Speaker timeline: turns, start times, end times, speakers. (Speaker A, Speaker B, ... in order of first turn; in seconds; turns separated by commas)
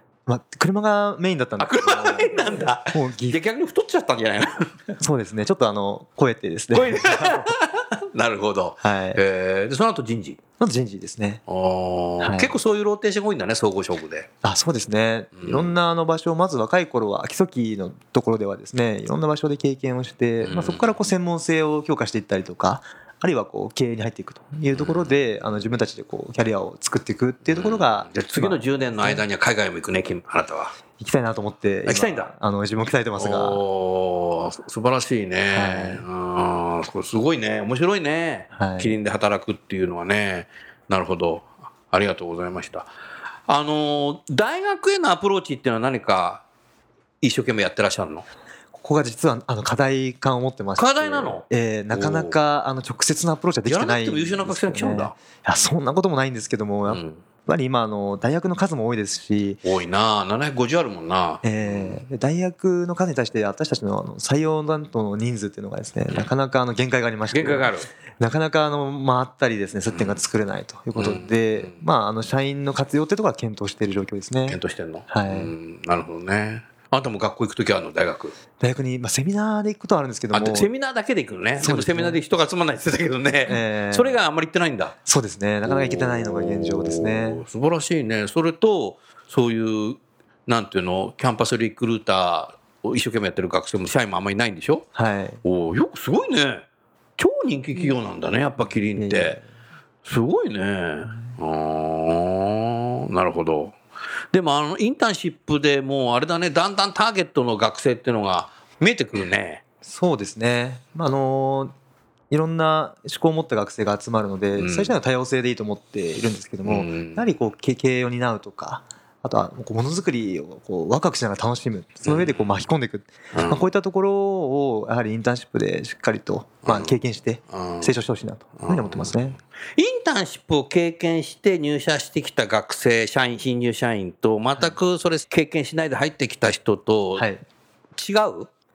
Speaker A: 0.3-3.4, Speaker B: 1.6-4.7, Speaker A: 5.0-7.5, Speaker B: 6.7-10.4, Speaker A: 8.8-9.2, Speaker A: 10.6-11.4, Speaker B: 11.5-14.3, Speaker A: 12.2-12.6, Speaker A: 14.4-29.2, Speaker B: 15.4-15.7, Speaker B: 20.4-20.9, Speaker B: 24.7-25.1, Speaker B: 27.5-30.8, Speaker A: 31.0-33.6, Speaker B: 31.9-32.3, Speaker B: 33.2-42.9, Speaker A: 35.5-36.0, Speaker A: 38.5-39.0, Speaker B: 43.5-46.4, Speaker B: 47.2-48.3, Speaker A: 48.8-59.6, Speaker B: 50.8-52.4, Speaker B: 53.7-55.2, Speaker B: 56.9-57.2, Speaker B: 59.6-62.0, Speaker A: 61.4-75.5, Speaker B: 67.3-67.9, Speaker B: 69.9-70.2, Speaker B: 71.0-71.8, Speaker B: 74.5-78.4, Speaker A: 78.6-80.7, Speaker B: 80.3-85.0, Speaker A: 81.6-82.2, Speaker A: 83.5-84.2, Speaker A: 85.1-87.4, Speaker B: 85.7-94.9, Speaker A: 95.0-95.4, Speaker B: 95.4-96.7, Speaker B: 97.2-99.4, Speaker A: 99.0-99.4, Speaker B: 100.0-103.8, Speaker B: 104.3-109.6, Speaker A: 109.8-111.7, Speaker A: 112.3-129.4, Speaker B: 114.6-114.9, Speaker B: 116.7-117.2, Speaker B: 122.0-122.5, Speaker B: 123.3-123.7, Speaker B: 126.7-127.0, Speaker B: 127.5-128.0, Speaker B: 128.6-129.2, Speaker B: 129.8-137.3, Speaker A: 137.2-137.4, Speaker B: 138.0-138.5